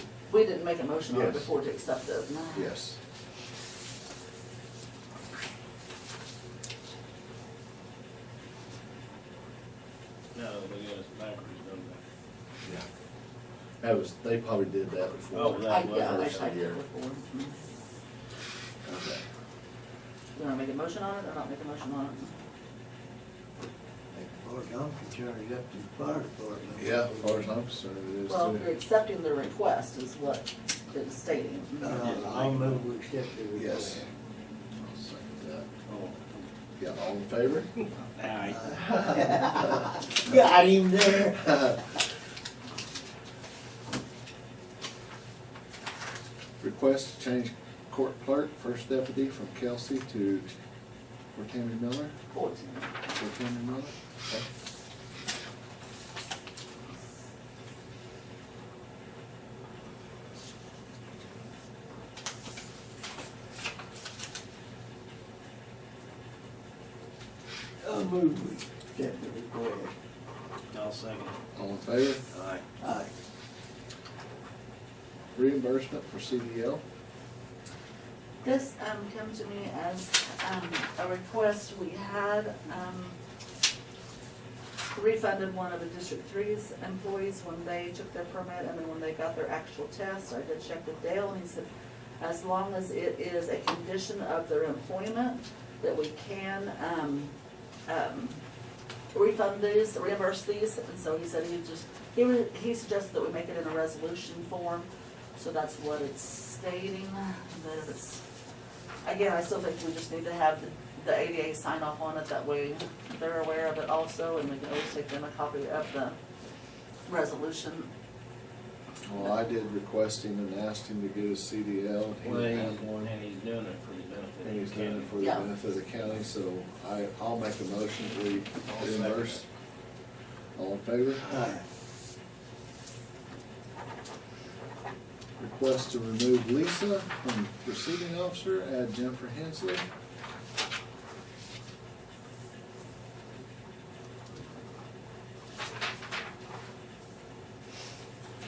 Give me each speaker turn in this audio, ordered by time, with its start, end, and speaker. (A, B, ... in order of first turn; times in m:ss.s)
0:00.3-0:02.7 A
0:01.1-0:01.5 B
0:02.5-0:03.0 B
0:10.3-0:12.0 C
0:13.8-0:16.8 B
0:15.3-0:16.5 C
0:15.6-0:17.6 A
0:18.8-0:19.2 B
0:20.3-0:22.3 A
0:24.1-0:27.5 D
0:26.8-0:28.7 B
0:28.2-0:32.1 A
0:31.8-0:34.0 D
0:31.9-0:32.9 C
0:33.6-0:34.0 B
0:34.8-0:35.7 B
0:35.9-0:36.4 C
0:36.8-0:37.7 B
0:37.8-0:39.3 C
0:38.5-0:41.8 D
0:39.2-0:39.5 B
0:46.6-0:50.5 B
0:51.3-0:52.2 B
0:52.3-0:52.9 A
0:53.1-0:54.5 B
1:07.8-1:09.9 D
1:10.7-1:11.4 C
1:11.6-1:12.2 B
1:12.3-1:12.6 C
1:12.8-1:13.1 D
1:15.3-1:16.8 B
1:18.4-1:23.2 A
1:24.9-1:31.7 A
1:32.2-1:37.3 A
1:37.9-1:38.4 A
1:39.1-1:48.2 A
1:49.0-1:56.2 A
1:57.1-1:57.9 A
1:59.0-2:03.1 B
2:02.2-2:05.2 C
2:04.4-2:09.4 B
2:05.2-2:05.5 A
2:08.6-2:09.4 C
2:10.5-2:11.2 B
2:11.2-2:11.6 C
2:11.3-2:11.6 D
2:15.4-2:19.8 B